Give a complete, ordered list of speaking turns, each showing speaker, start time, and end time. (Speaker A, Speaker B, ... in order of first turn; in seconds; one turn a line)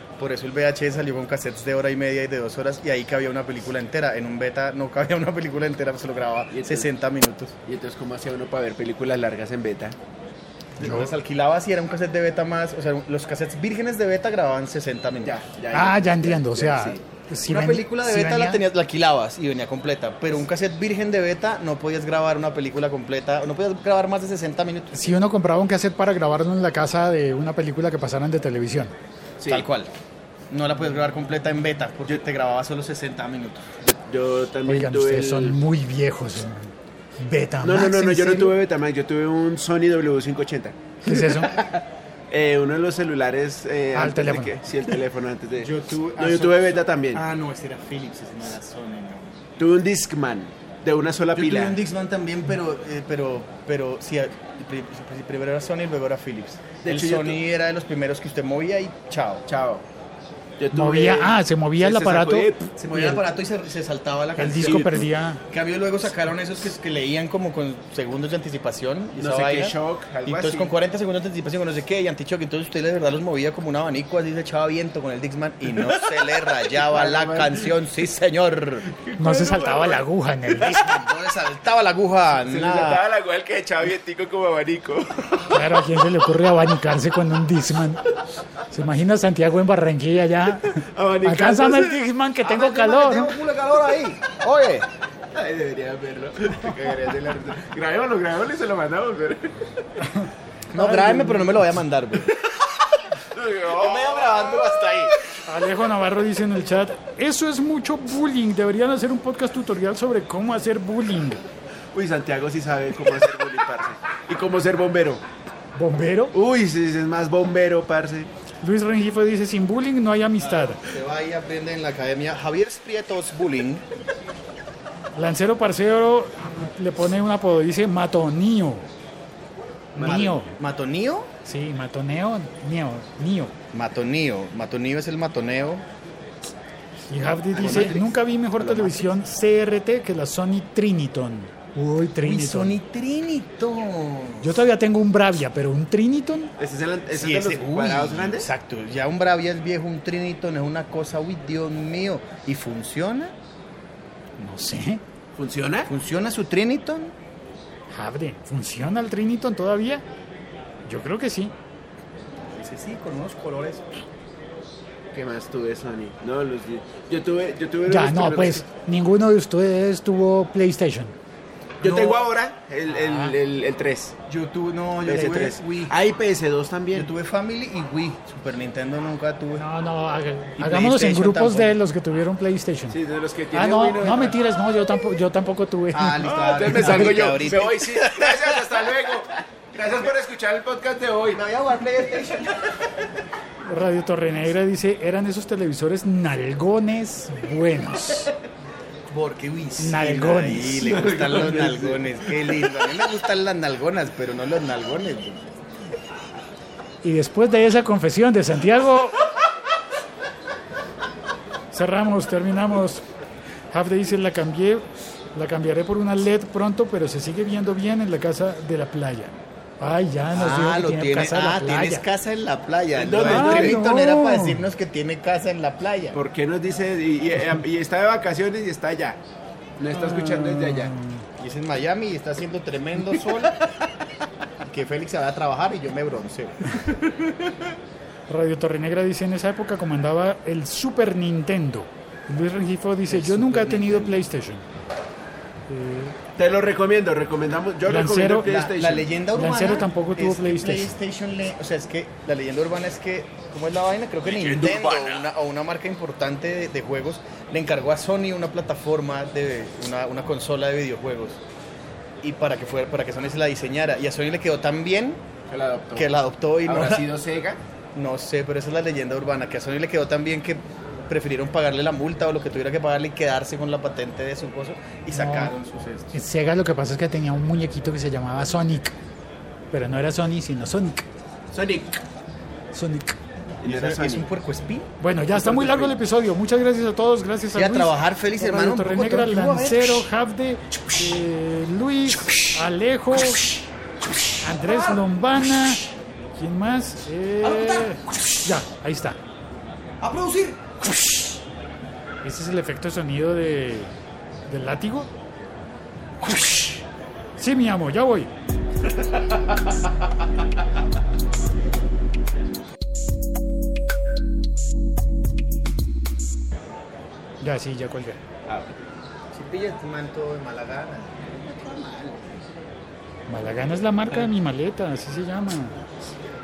Speaker A: 0.2-7.5
Speaker B: 6.5-6.9
Speaker B: 7.7-10.0
Speaker A: 10.8-15.3
Speaker C: 10.8-11.1
Speaker B: 15.2-17.0
Speaker C: 15.7-18.6
Speaker A: 17.4-25.0
Speaker C: 24.9-28.9
Speaker B: 29.4-29.7
Speaker A: 29.5-29.9
Speaker A: 30.5-33.7
Speaker B: 33.8-35.6
Speaker C: 34.7-38.5
Speaker B: 37.6-47.2
Speaker C: 41.0-41.6
Speaker C: 43.9-44.6
Speaker A: 45.6-49.4
Speaker B: 49.6-51.8
Speaker A: 51.4-59.4
Speaker B: 56.8-57.4
Speaker B: 59.5-59.8
Speaker B: 60.6-62.7
Speaker C: 60.7-63.2
Speaker A: 62.8-78.9
Speaker C: 64.4-65.4
Speaker B: 64.6-65.1
Speaker B: 69.2-70.7
Speaker B: 75.9-77.7
Speaker B: 78.9-80.0
Speaker C: 79.2-81.1
Speaker A: 80.8-83.0
Speaker B: 82.4-85.6
Speaker C: 85.5-88.0
Speaker C: 88.7-93.4
Speaker B: 90.8-92.0
Speaker A: 92.4-94.9
Speaker B: 95.3-99.7
Speaker A: 100.7-102.3
Speaker C: 100.8-101.6
Speaker B: 103.3-104.6
Speaker A: 103.7-105.2
Speaker C: 105.4-111.4
Speaker B: 111.9-115.2
Speaker C: 115.8-116.4
Speaker B: 116.3-118.3
Speaker C: 118.6-120.8
Speaker A: 120.4-123.8
Speaker C: 125.2-128.9
Speaker C: 129.9-130.6
Speaker A: 130.0-131.3
Speaker B: 130.0-130.2
Speaker C: 131.4-133.5
Speaker A: 133.7-135.8
Speaker C: 137.1-142.8
Speaker B: 137.5-138.1
Speaker A: 137.6-137.9
Speaker B: 138.6-139.0
Speaker A: 142.2-144.6
Speaker C: 144.4-146.5
Speaker B: 146.6-148.5
Speaker A: 147.1-153.3
Speaker C: 154.4-155.0
Speaker B: 155.4-155.9
Speaker A: 155.9-157.1
Speaker C: 157.9-160.0
Speaker C: 160.9-161.5
Speaker A: 162.6-163.8
Speaker B: 165.1-168.6
Speaker C: 167.9-171.2
Speaker B: 171.8-174.2
Speaker C: 171.8-172.1
Speaker C: 172.9-173.4
Speaker A: 174.3-175.9
Speaker B: 175.0-177.1
Speaker C: 175.1-175.4
Speaker A: 176.9-179.7
Speaker C: 179.6-183.0
Speaker A: 180.6-181.8
Speaker B: 182.9-184.4
Speaker C: 183.5-187.3
Speaker A: 185.9-188.6
Speaker B: 186.2-191.4
Speaker A: 191.3-192.7
Speaker C: 193.6-198.3
Speaker A: 199.1-205.5
Speaker C: 199.8-201.0
Speaker B: 200.8-202.5
Speaker C: 207.0-209.2
Speaker C: 211.7-213.1
Speaker C: 213.7-222.1
Speaker A: 220.3-226.2
Speaker B: 222.9-223.8
Speaker C: 223.2-224.7
Speaker B: 226.1-229.2
Speaker B: 229.8-230.9
Speaker C: 229.9-231.2
Speaker A: 231.4-233.6
Speaker A: 234.7-236.7
Speaker C: 238.3-244.7
Speaker A: 243.1-244.2
Speaker C: 245.7-246.2
Speaker B: 246.4-249.1
Speaker C: 247.9-248.5
Speaker A: 248.4-261.4
Speaker C: 249.3-250.9
Speaker B: 254.3-255.3
Speaker A: 262.2-265.2
Speaker B: 265.5-267.6
Speaker A: 265.9-267.1
Speaker A: 267.9-276.1
Speaker C: 275.1-275.6
Speaker C: 276.1-278.9
Speaker C: 279.7-281.1
Speaker B: 281.5-282.0
Speaker C: 282.7-283.2
Speaker B: 283.6-284.3
Speaker A: 283.6-284.9
Speaker C: 285.0-293.5
Speaker B: 285.4-286.0
Speaker A: 287.5-290.1
Speaker C: 294.4-295.8
Speaker C: 296.4-299.2
Speaker A: 300.0-300.6
Speaker C: 302.2-303.9
Speaker C: 304.5-305.1
Speaker A: 306.4-306.6
Speaker C: 307.4-308.3
Speaker C: 317.4-318.2
Speaker B: 318.5-318.8
Speaker A: 319.3-322.3
Speaker C: 323.3-325.8